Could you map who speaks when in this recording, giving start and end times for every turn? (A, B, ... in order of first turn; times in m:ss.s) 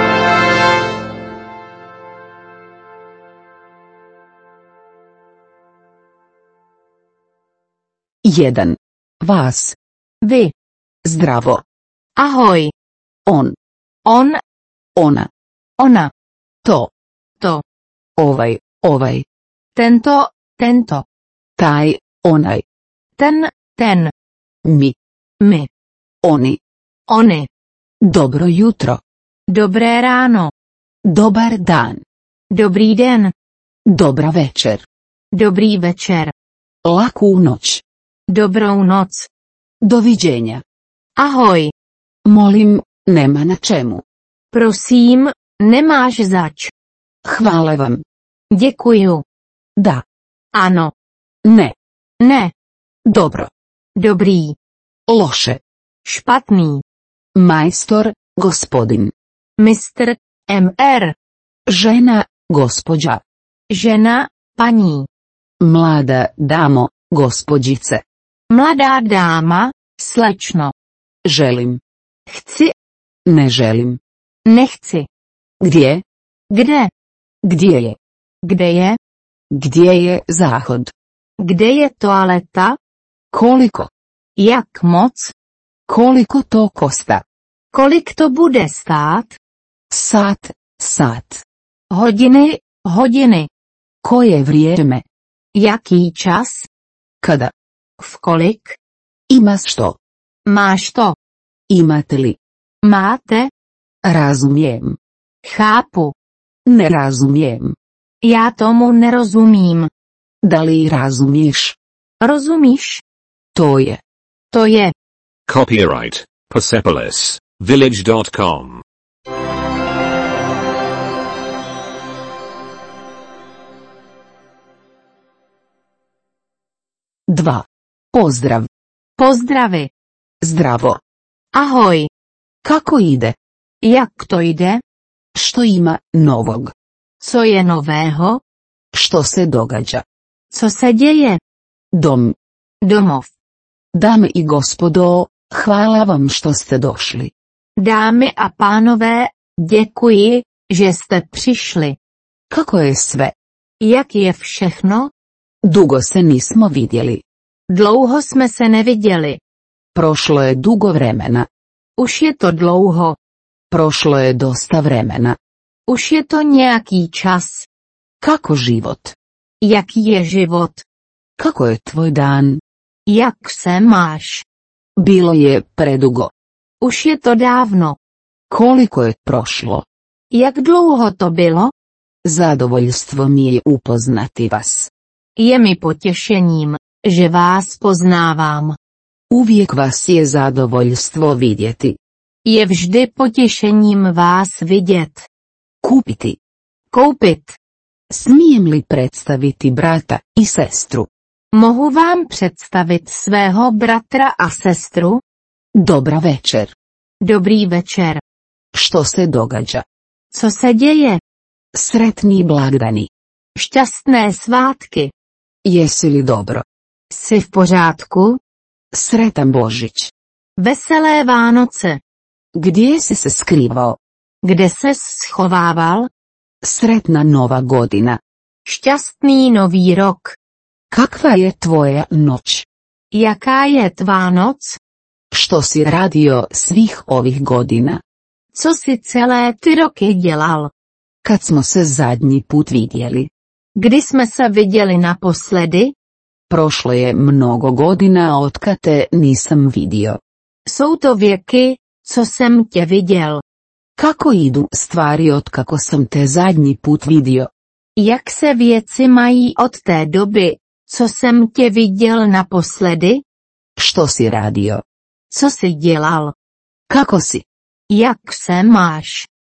0:08.2-0:09.8 A
0:10.2-0:10.5 B
0:11.0-0:11.6 A
0:12.2-0:12.7 B
0:13.2-0:13.5 A
0:14.0-0:14.4 B
0:15.0-0:15.3 A
0:15.8-0:16.1 B
0:16.6-0:16.9 A
0:18.2-0:19.2 A
0:19.7-0:21.0 B
0:21.6-0:22.6 A
0:23.2-0:24.1 B
0:24.6-0:24.9 A
0:25.4-0:25.7 B
0:26.2-0:26.6 A
0:27.1-0:27.5 B
0:28.0-0:29.0 A
0:29.5-0:30.5 B
0:31.0-0:32.0 A
0:32.5-0:33.3 B
0:33.9-0:34.8 A
0:35.3-0:36.3 B
0:36.8-0:37.8 A
0:38.3-0:39.3 B
0:39.8-0:40.6 A
0:41.2-0:41.7 B
0:42.2-0:44.0 A
0:44.5-0:46.7 B
0:47.2-0:48.0 A
0:48.5-0:49.2 B
0:49.8-0:50.0 A
0:50.5-0:50.9 B
0:51.4-0:51.7 A
0:52.2-0:52.5 B
0:53.0-0:53.5 A
0:54.0-0:54.6 B
0:55.1-0:55.6 A
0:56.0-0:56.8 B
0:57.4-0:59.1 A
0:59.6-1:01.1 B
1:01.7-1:03.2 A
1:03.7-1:05.1 B
1:05.6-1:08.0 A
1:08.5-1:10.7 B
1:11.2-1:11.8 A
1:12.3-1:12.7 B
1:13.2-1:14.0 A
1:14.4-1:15.1 B
1:15.6-1:16.0 A
1:16.5-1:16.9 B
1:17.4-1:18.0 A
1:18.4-1:19.0 B
1:19.5-1:20.9 A
1:21.4-1:22.8 B
1:23.3-1:23.9 A
1:24.4-1:25.3 B
1:25.9-1:27.2 A
1:27.7-1:29.4 B
1:29.9-1:31.4 A
1:31.9-1:33.5 B
1:34.0-1:35.0 A
1:35.5-1:36.7 B
1:37.2-1:37.5 A
1:38.0-1:38.8 B
1:39.3-1:40.0 A
1:40.4-1:41.1 B
1:41.7-1:42.4 A
1:42.8-1:43.5 B
1:44.0-1:45.0 A
1:45.4-1:46.1 B
1:46.6-1:47.8 A
1:48.2-1:49.9 B
1:50.4-1:51.8 A
1:52.2-1:53.0 B
1:53.5-1:54.0 A
1:54.5-1:54.9 B
1:55.5-1:58.8 C
2:07.3-2:08.7 A
2:09.2-2:09.9 B
2:10.4-2:11.0 A
2:11.5-2:12.1 B
2:12.6-2:13.4 A
2:13.8-2:14.8 B
2:15.3-2:16.7 A
2:17.2-2:18.4 B
2:18.9-2:20.0 A
2:20.5-2:21.4 B
2:21.9-2:22.4 A
2:22.8-2:23.3 B
2:23.9-2:27.3 A
2:27.8-2:32.0 B
2:32.5-2:33.3 A
2:33.8-2:35.1 B
2:35.6-2:37.2 A
2:37.7-2:39.4 B
2:39.9-2:41.5 A
2:42.0-2:43.2 B
2:43.7-2:45.4 A
2:45.9-2:47.7 B
2:48.2-2:49.2 A
2:49.6-2:50.8 B
2:51.4-2:52.6 A
2:53.1-2:54.4 B
2:55.0-2:56.3 A
2:56.8-2:58.0 B
2:58.5-2:59.8 A
3:00.3-3:01.7 B
3:02.2-3:04.9 A
3:05.4-3:08.8 B
3:09.3-3:12.0 A
3:12.4-3:15.3 B
3:15.8-3:16.4 A
3:16.9-3:17.6 B
3:18.1-3:21.1 A
3:21.5-3:25.2 B
3:25.8-3:26.7 A
3:27.2-3:28.2 B
3:28.7-3:29.8 A
3:30.3-3:31.2 B
3:31.7-3:33.1 A
3:33.6-3:35.1 B
3:35.6-3:36.6 A
3:37.1-3:38.4 B
3:38.9-3:40.1 A
3:40.6-3:42.0 B
3:42.5-3:44.0 A
3:44.4-3:46.1 B
3:46.6-3:48.2 A
3:48.6-3:50.4 B
3:50.9-3:52.6 A
3:53.1-3:54.8 B
3:55.3-3:58.0 A
3:58.5-4:00.7 B
4:01.2-4:03.3 A
4:03.8-4:05.9 B
4:06.5-4:10.2 A
4:10.6-4:13.4 B
4:14.0-4:17.5 A
4:18.0-4:23.2 B
4:23.8-4:24.8 A
4:25.3-4:26.3 B
4:26.9-4:27.4 A
4:27.9-4:29.3 B